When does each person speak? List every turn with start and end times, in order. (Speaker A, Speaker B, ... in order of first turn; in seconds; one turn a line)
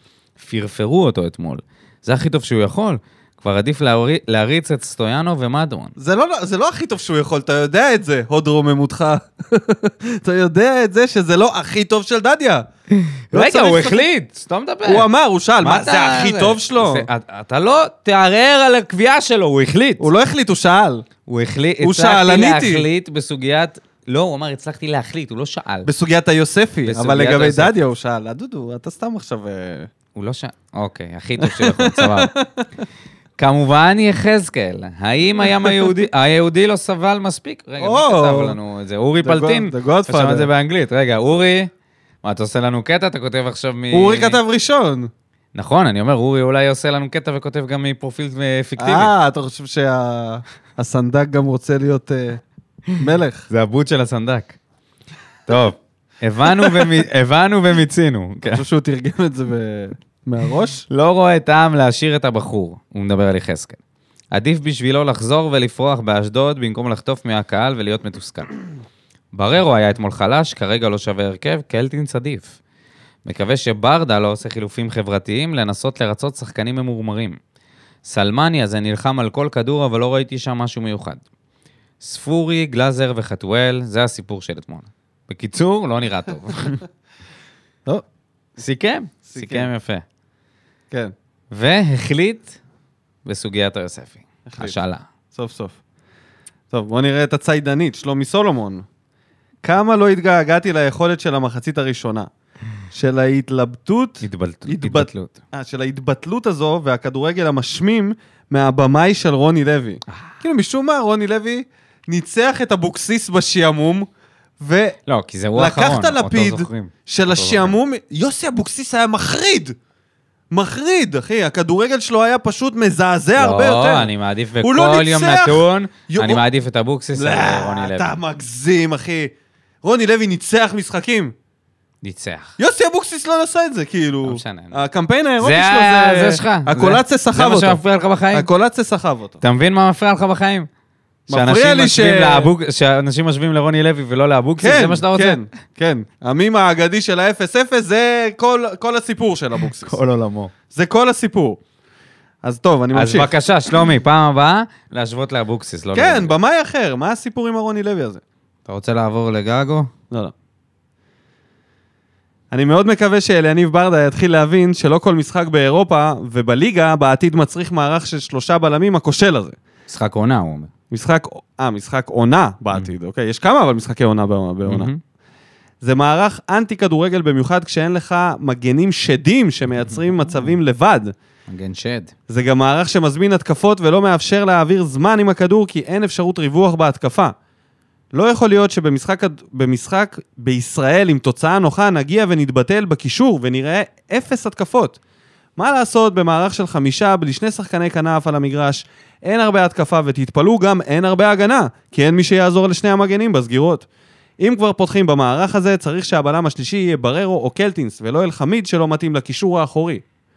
Speaker A: 0.4-5.9
Speaker B: 6.0-12.7
Speaker A: 13.0-15.1
Speaker B: 13.3-14.1
Speaker B: 14.9-17.1
Speaker A: 15.6-20.1
Speaker B: 20.0-21.1
Speaker A: 21.3-25.9
Speaker B: 21.8-22.9
Speaker B: 25.9-29.9
Speaker A: 26.9-27.8
Speaker A: 30.1-32.3
Speaker B: 31.4-32.7
Speaker A: 33.4-41.7
Speaker B: 37.8-38.6
Speaker B: 39.2-40.5
Speaker A: 42.2-44.4
Speaker B: 43.9-45.1
Speaker A: 45.5-49.1
Speaker B: 48.8-52.4
Speaker B: 53.0-53.5
Speaker A: 53.5-54.6
Speaker A: 55.5-58.6
Speaker B: 56.6-56.9
Speaker B: 58.5-60.9
Speaker A: 60.9-63.8
Speaker A: 64.3-68.5
Speaker A: 69.3-72.6
Speaker A: 73.2-77.4
Speaker A: 78.0-81.2
Speaker A: 82.0-86.8
Speaker A: 88.6-90.0
Speaker B: 89.3-89.7
Speaker A: 91.5-92.6
Speaker A: 93.2-95.1
Speaker B: 94.5-94.8
Speaker B: 95.3-95.8
Speaker B: 96.7-98.9
Speaker B: 99.6-102.3
Speaker B: 102.9-114.1
Speaker A: 104.2-105.4
Speaker B: 114.6-115.0
Speaker A: 115.1-117.8
Speaker B: 115.5-119.8
Speaker B: 120.5-124.1
Speaker A: 123.4-128.1
Speaker B: 124.6-126.4
Speaker B: 127.2-131.3
Speaker A: 132.0-132.6
Speaker B: 132.6-137.8
Speaker A: 134.2-134.8
Speaker A: 135.4-138.5
Speaker B: 138.3-139.4
Speaker A: 139.4-140.7
Speaker B: 141.3-142.5
Speaker A: 141.3-145.4
Speaker B: 144.6-150.0
Speaker A: 149.8-150.5
Speaker B: 150.7-151.6
Speaker B: 152.4-153.3
Speaker A: 152.9-156.3
Speaker B: 155.9-158.2
Speaker A: 158.7-159.9
Speaker B: 162.5-169.6
Speaker A: 169.9-170.7
Speaker B: 170.9-174.9
Speaker A: 174.7-175.0
Speaker B: 175.8-181.1
Speaker A: 181.5-182.1
Speaker B: 182.3-187.3
Speaker B: 188.1-195.0
Speaker B: 195.6-203.9
Speaker B: 204.4-210.0